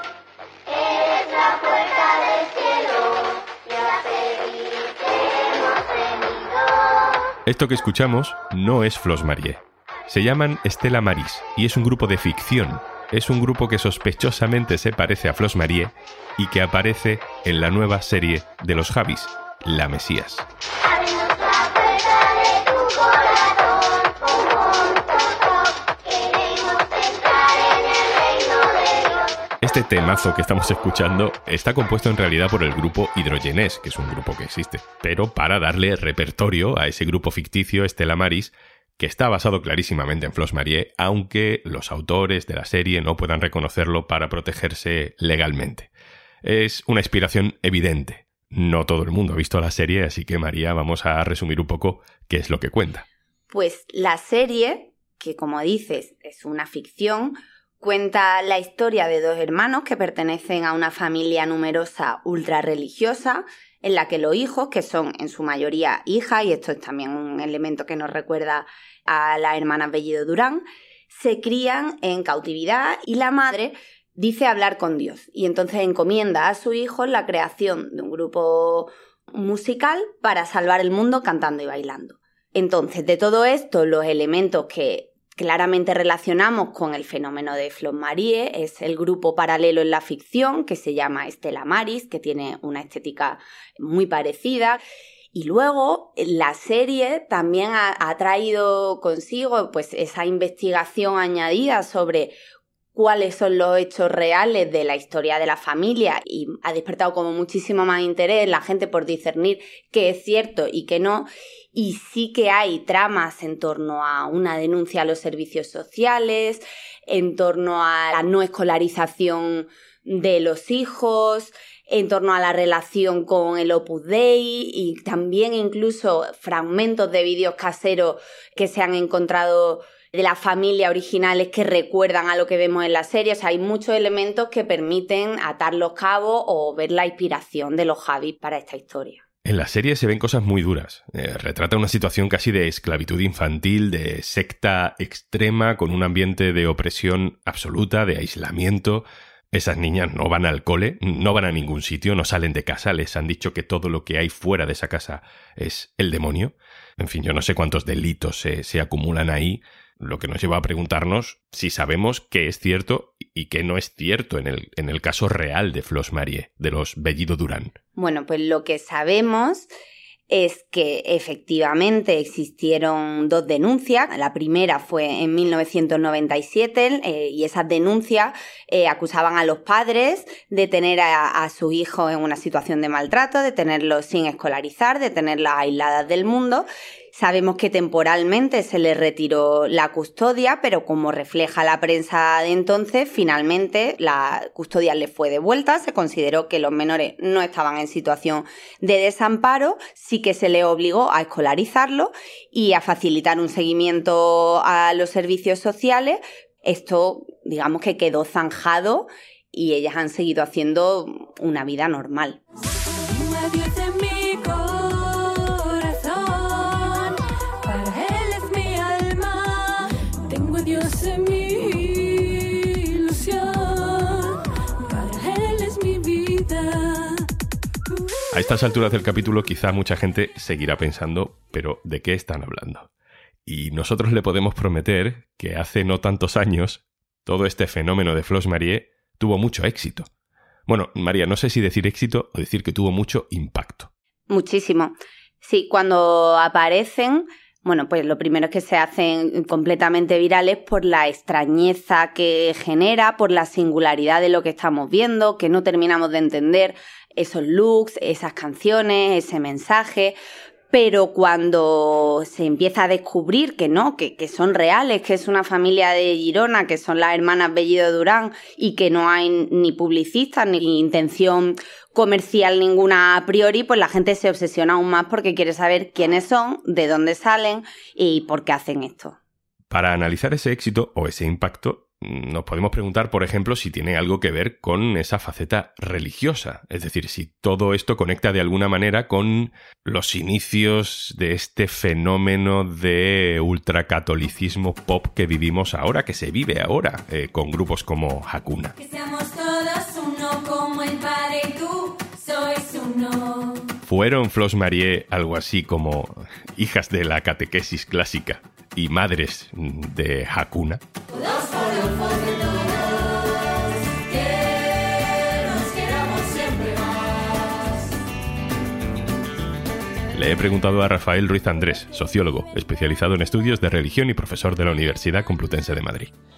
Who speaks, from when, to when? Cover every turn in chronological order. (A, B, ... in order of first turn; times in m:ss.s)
0:07.5-0:20.5 A
0:29.6-0:45.9 A
0:46.4-0:53.0 A
0:53.5-1:34.8 B
1:35.3-1:42.4 B
1:42.9-2:19.2 B
2:19.4-2:47.7 A
2:48.0-2:49.7 B
2:50.3-3:32.4 B
3:33.0-3:47.3 C
3:48.3-3:52.9 A
3:53.5-4:00.1 A
4:00.7-4:03.9 A
4:04.3-4:20.2 B
4:20.7-4:39.2 B
4:39.7-4:58.8 A
4:58.8-5:03.7 C
5:03.8-5:10.8 A
5:11.2-5:17.0 C
5:20.1-5:26.1 A